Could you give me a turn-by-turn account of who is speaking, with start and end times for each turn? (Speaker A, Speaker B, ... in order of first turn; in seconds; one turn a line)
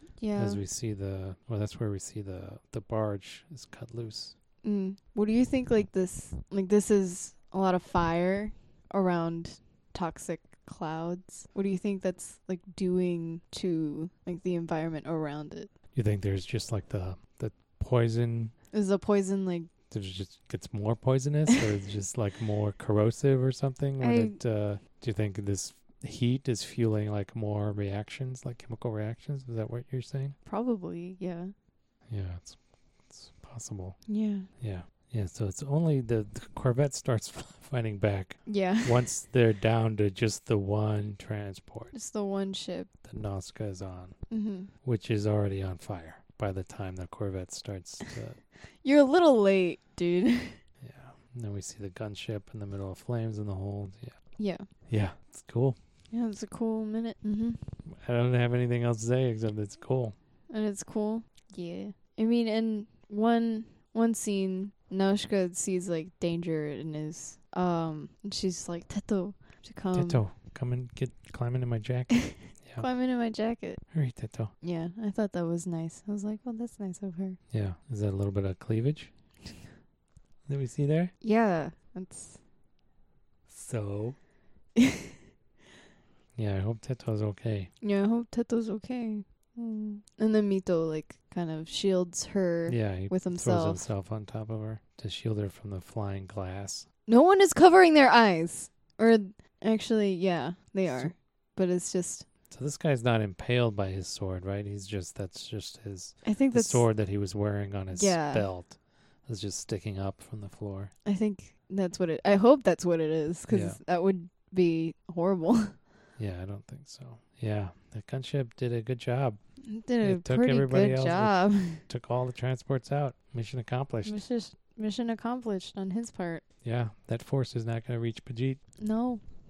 Speaker A: 0.2-0.6
Speaker B: 0.4-4.3
Speaker A: 4.6-15.7
Speaker B: 15.9-18.5
Speaker A: 18.7-19.7
Speaker B: 19.9-30.4
Speaker A: 24.0-24.4
Speaker A: 30.5-31.5
Speaker B: 32.1-34.0
Speaker A: 34.1-34.5
Speaker B: 34.6-41.9
Speaker A: 38.5-39.1
Speaker A: 41.9-42.9
Speaker B: 43.0-44.2
Speaker A: 44.3-44.7
Speaker B: 44.8-48.4
Speaker A: 48.8-50.6
Speaker B: 50.8-54.1
Speaker A: 54.4-54.6
Speaker B: 54.9-55.8
Speaker A: 56.1-57.8
Speaker B: 57.9-60.2
Speaker A: 60.5-70.2
Speaker B: 70.0-72.9
Speaker A: 72.1-73.8
Speaker B: 73.9-74.5
Speaker A: 74.6-77.4
Speaker B: 77.5-79.1
Speaker B: 80.5-81.1
Speaker A: 81.2-82.4
Speaker B: 83.5-84.2
Speaker A: 84.8-85.2
Speaker B: 86.4-87.7
Speaker A: 87.8-93.8
Speaker B: 92.7-96.9
Speaker A: 97.1-102.3
Speaker B: 100.9-101.1
Speaker B: 102.5-110.9
Speaker A: 106.2-106.9
Speaker A: 107.9-108.5
Speaker A: 111.1-115.8
Speaker B: 113.5-113.8
Speaker B: 116.2-119.4
Speaker A: 119.7-121.8
Speaker B: 120.0-124.2
Speaker A: 124.0-126.4
Speaker B: 126.6-128.6
Speaker A: 128.8-129.2